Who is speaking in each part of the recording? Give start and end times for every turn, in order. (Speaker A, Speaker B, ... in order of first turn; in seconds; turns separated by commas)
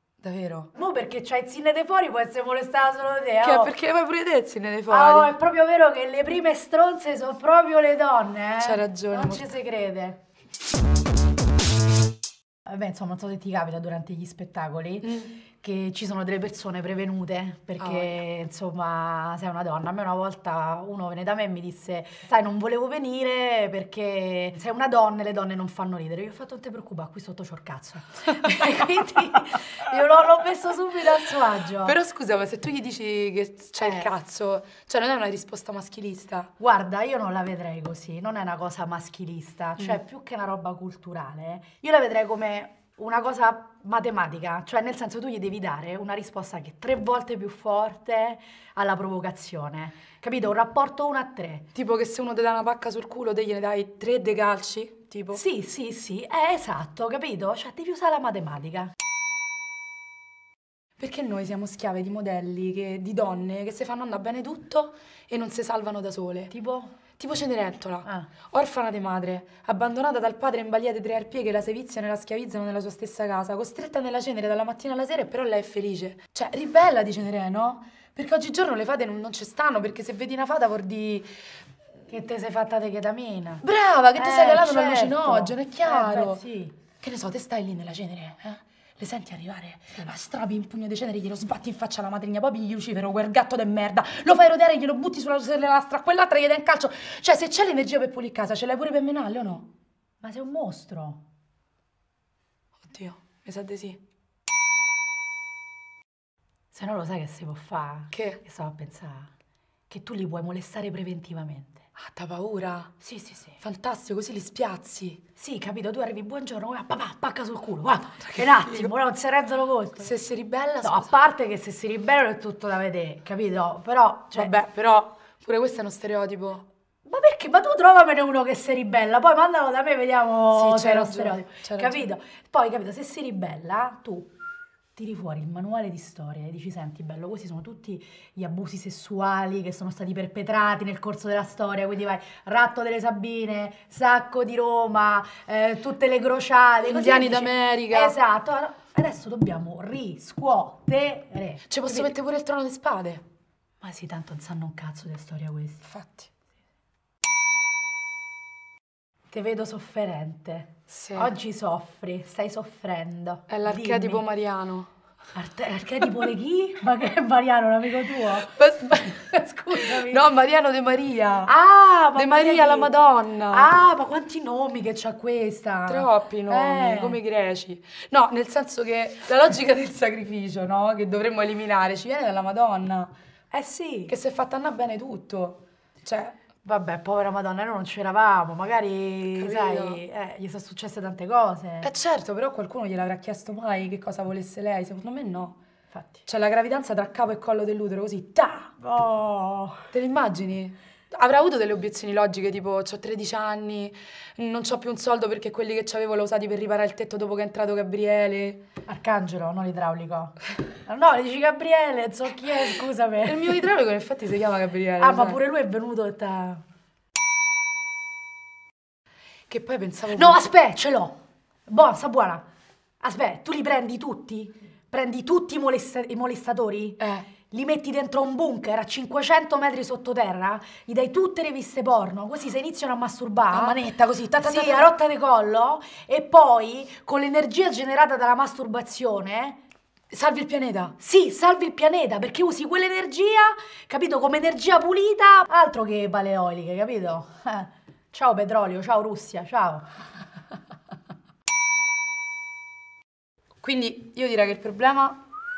Speaker A: 0.2-0.7, Speaker B: 0.7-3.7, Speaker A: 3.4-5.3, Speaker B: 4.9-10.2, Speaker A: 8.6-9.4, Speaker B: 12.7-31.9, Speaker A: 15.0-15.3, Speaker A: 17.8-18.1, Speaker A: 31.8-36.5, Speaker B: 33.8-34.1, Speaker B: 36.6-51.6, Speaker A: 51.7-55.4, Speaker B: 55.3-58.9, Speaker A: 61.0-66.5, Speaker B: 66.5-66.9, Speaker A: 67.2-81.3, Speaker B: 82.1-83.6, Speaker A: 83.6-86.4, Speaker B: 84.1-86.7, Speaker A: 87.0-99.7, Speaker B: 100.2-101.2, Speaker A: 102.8-104.0, Speaker B: 106.7-109.3, Speaker A: 108.1-108.4, Speaker B: 109.9-111.8, Speaker A: 112.0-112.9, Speaker B: 113.0-113.6, Speaker A: 113.6-115.2, Speaker B: 115.4-120.1, Speaker A: 118.3-118.9, Speaker A: 120.0-121.1, Speaker B: 120.8-124.5, Speaker A: 124.3-126.6, Speaker B: 127.0-134.3, Speaker A: 130.5-132.0, Speaker B: 134.9-152.1, Speaker A: 146.8-148.2, Speaker A: 151.7-153.2, Speaker B: 153.8-155.8, Speaker A: 155.8-156.3, Speaker B: 159.3-164.2, Speaker A: 160.9-161.3, Speaker A: 163.5-164.9, Speaker B: 165.3-170.2, Speaker A: 168.3-171.5, Speaker B: 171.4-172.9, Speaker A: 172.1-173.7, Speaker B: 173.5-177.2, Speaker A: 175.9-183.1, Speaker B: 183.5-184.1, Speaker A: 184.1-186.4, Speaker B: 186.6-191.9, Speaker A: 189.3-190.0, Speaker A: 191.8-195.6, Speaker B: 195.9-196.2, Speaker A: 196.2-198.7, Speaker B: 198.8-199.9, Speaker A: 199.9-208.6, Speaker B: 208.8-213.6, Speaker A: 213.2-215.4, Speaker B: 215.0-216.6, Speaker A: 219.5-220.4, Speaker B: 220.1-222.4, Speaker B: 223.0-239.6, Speaker A: 227.0-227.3, Speaker A: 233.5-234.9, Speaker A: 240.1-240.9, Speaker B: 241.0-249.9, Speaker A: 253.6-255.2